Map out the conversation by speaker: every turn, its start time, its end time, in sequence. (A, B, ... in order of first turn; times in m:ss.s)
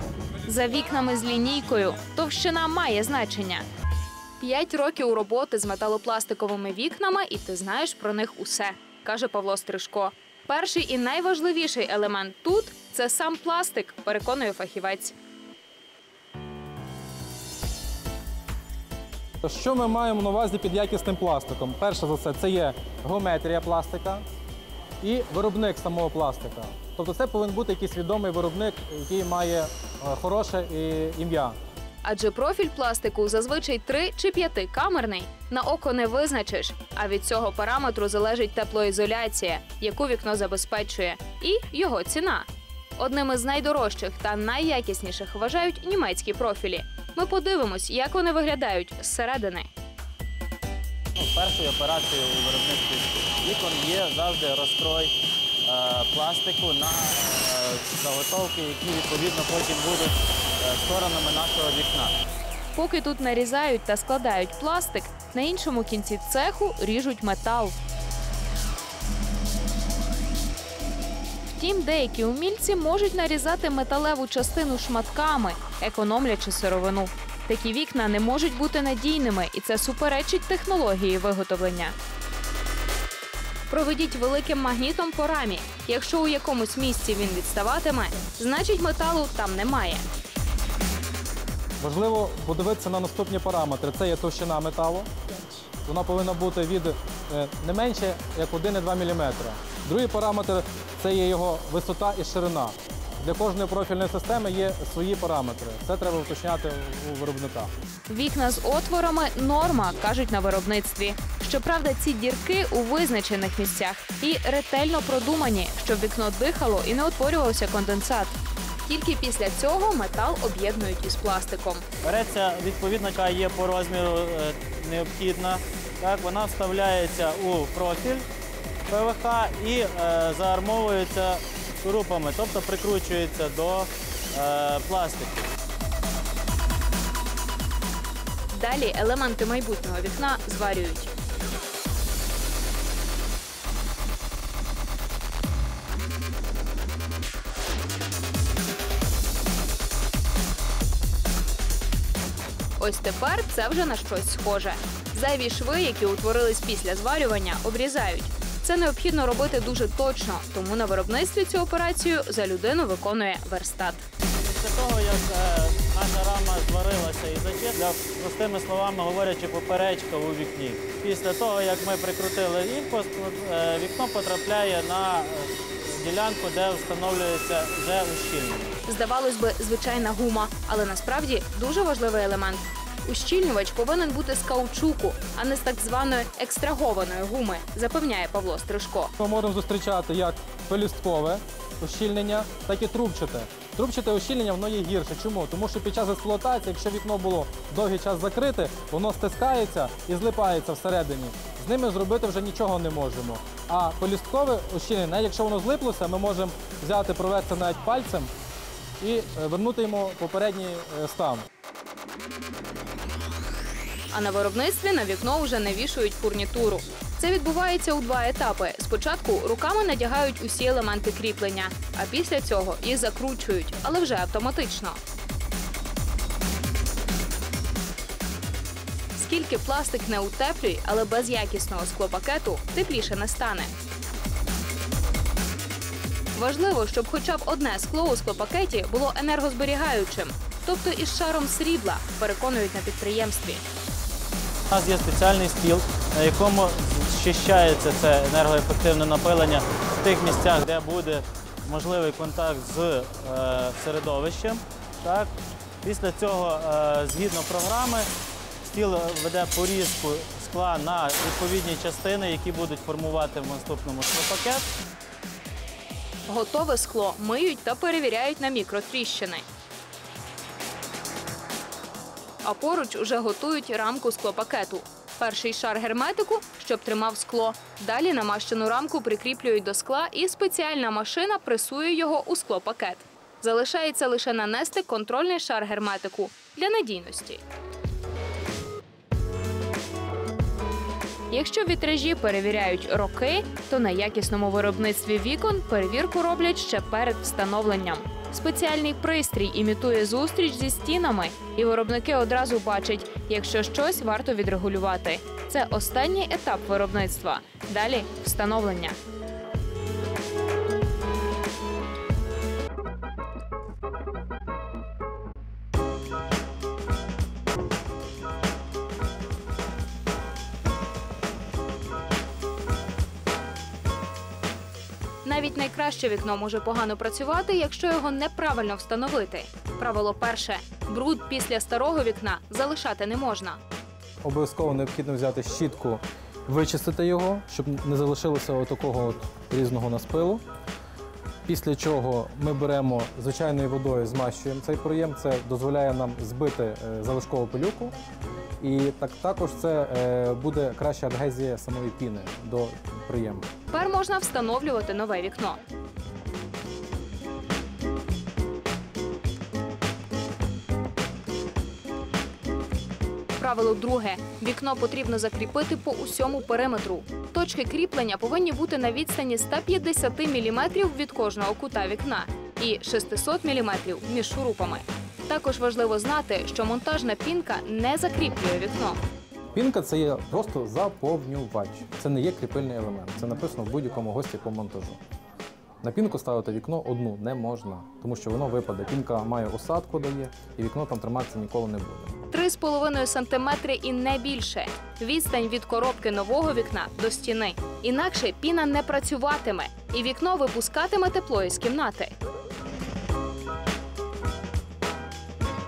0:00.4-0:03.7 A
0:04.4-0:15.2 A
0:19.4-0:24.2 B
0:25.0-0:31.6 B
0:32.0-0:49.7 A
0:51.2-1:02.2 C
1:02.8-1:07.8 A
1:11.5-1:22.0 A
1:23.7-1:30.1 A
1:31.8-1:35.1 B
1:35.8-1:47.7 B
1:48.1-2:01.8 A
2:02.0-2:08.3 C
2:08.9-2:15.5 C
2:18.5-2:21.1 A
2:32.8-2:44.0 A
2:44.4-2:58.8 C
2:58.9-3:09.1 A
3:09.2-3:28.3 B
3:29.0-3:31.4 B
3:34.1-3:45.0 A
3:49.2-3:53.7 A
3:56.3-4:03.6 A
4:04.7-4:15.3 C
4:15.8-4:18.1 C
4:18.6-4:24.7 C
4:26.3-4:29.5 A
4:32.4-4:47.4 A
4:51.3-5:09.0 A
5:25.2-5:33.6 A
5:34.2-5:40.4 B
5:41.5-5:48.0 B
5:48.6-5:53.5 B
5:53.7-5:55.6 A
6:03.4-6:19.0 A
6:19.6-6:25.0 B
6:25.8-6:32.2 B
6:32.3-6:42.1 A